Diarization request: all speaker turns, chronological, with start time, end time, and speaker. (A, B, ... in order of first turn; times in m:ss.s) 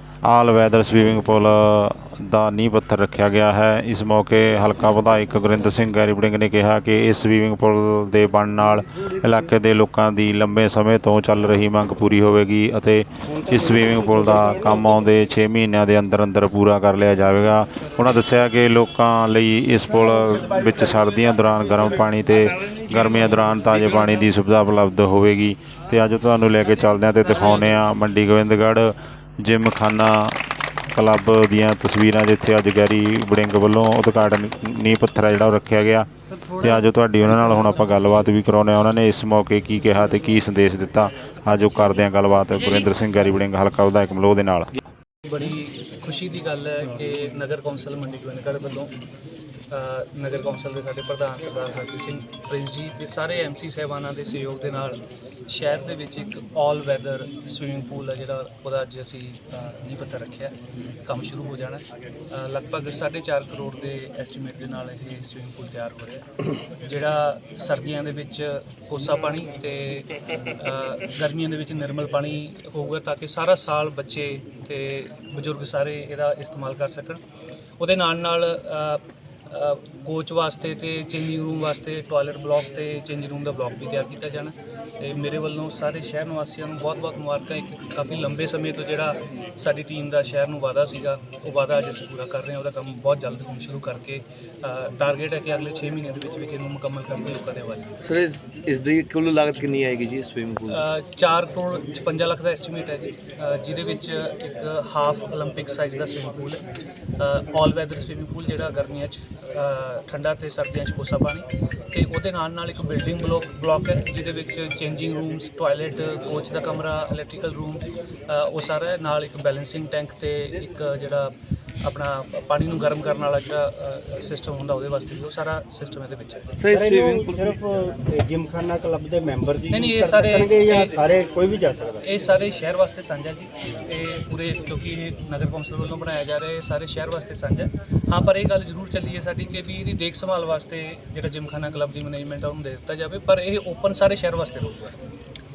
0:00.2-0:44.8 A
0:13.2-0:15.0 B
0:45.2-0:48.9 C
0:49.7-1:00.5 C
1:01.0-1:17.2 C
1:17.8-1:37.9 C
1:38.0-1:40.8 D
1:40.7-1:46.6 C
1:47.2-2:06.5 C
2:06.6-2:07.6 D
2:06.7-2:12.0 B
2:09.7-2:11.0 C
2:12.0-2:24.9 C